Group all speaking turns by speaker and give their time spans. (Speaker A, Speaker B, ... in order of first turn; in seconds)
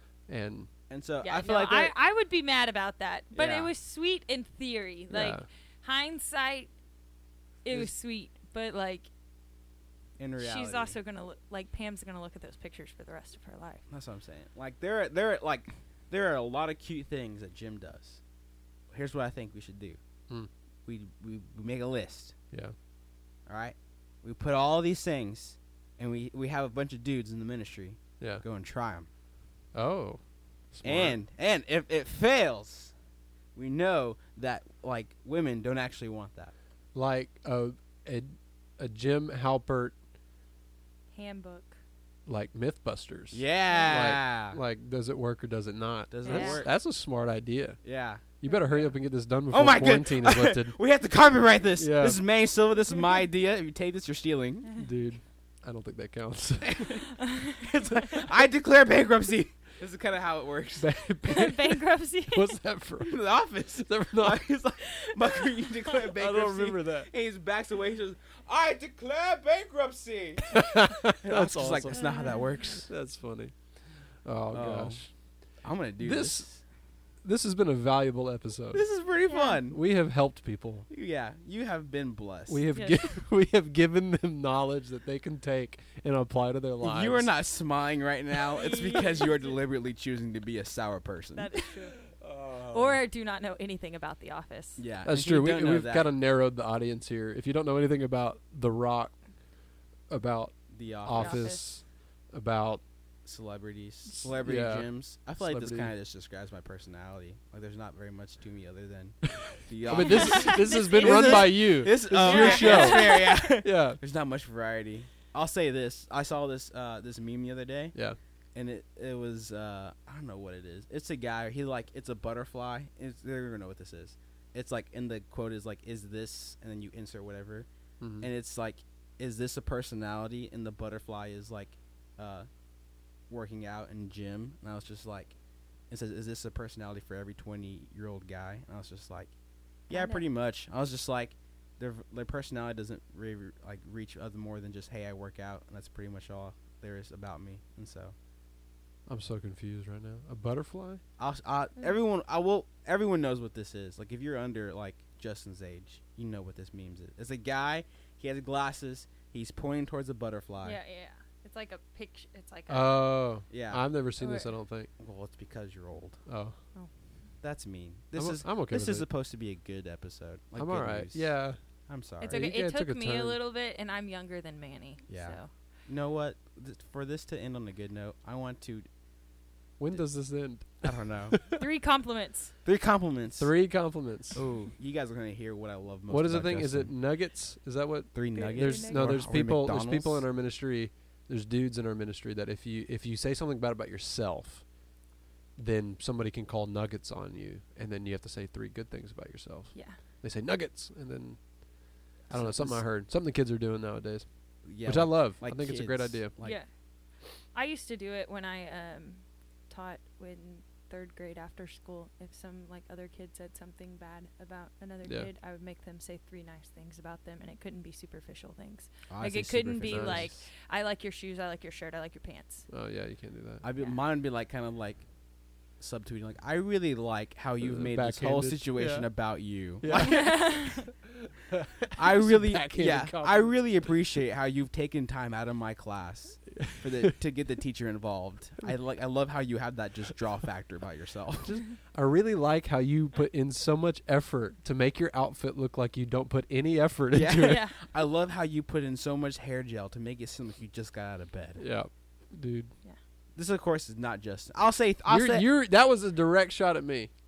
Speaker A: 0.3-0.7, 5.1-5.5, 29.8-30.2, 30.7-31.2, 37.0-40.0, 42.3-47.8, 48.4-50.8, 51.8-52.2, 54.8-57.0, 60.8-63.2, 63.8-64.5, 66.2-67.1, 70.5-72.0, 72.7-73.5, 74.2-75.1, 76.0-76.5, 77.2-78.8, 79.7-80.9, 82.5-87.3, 92.1-93.0, 95.0-99.2, 100.1-102.8, 104.2-105.9, 109.8-114.0, 128.0-128.3, 149.1-151.0, 162.7-164.9, 166.3-166.6, 168.2-169.1, 170.6-171.6, 172.3-173.4, 179.8-181.6, 183.4-184.5, 186.1-194.7, 195.6-201.4, 202.3-204.3, 204.8-206.3, 215.0-215.3, 219.9-220.3, 222.7-223.7, 227.6-229.1, 229.8-233.7, 236.6-237.1, 241.5-247.6, 251.6-252.7, 255.1-257.1
Speaker B: 0.9-1.9, 3.3-3.7, 10.2-11.0, 13.9-18.2, 18.9-20.0, 20.9-22.4, 23.5-29.1, 30.8-32.9, 33.5-36.5, 43.3-44.6, 46.1-46.7, 47.8-48.3, 49.5-54.7, 56.6-57.0, 57.6-60.9, 63.0-72.9, 74.5-75.1, 75.6-76.6, 78.7-79.8, 80.9-82.6, 86.8-91.5, 94.8-96.1, 100.7-101.6, 103.2-118.0, 118.5-127.7, 128.2-132.5, 133.3-135.3, 135.9-139.3, 139.9-148.2, 151.2-160.8, 163.5-163.8, 165.0-166.2, 167.4-171.3, 171.9-172.5, 175.1-178.9, 180.8-181.3, 182.7-183.5, 184.3-186.9, 188.1-190.3, 202.3-202.8, 204.6-206.6, 219.1-220.4, 223.6-225.1, 225.8-230.6, 232.0-241.6, 247.1-251.6, 253.4-255.5
Speaker C: 1.2-6.7, 7.6-9.1, 10.4-13.8, 41.1-41.8, 43.7-44.0, 46.2-46.6, 48.5-48.8, 57.1-57.6, 61.2-62.5, 64.8-65.7, 71.9-72.5, 79.3-79.6, 82.7-83.1, 88.5-89.6, 91.4-92.0, 92.6-94.8, 101.1-101.6, 110.0-113.4, 139.9-140.3, 160.6-163.0, 164.2-164.5, 172.2-175.5, 181.6-182.5, 188.3-189.2, 206.4-206.7, 207.5-222.7, 229.9-230.8, 247.4-247.8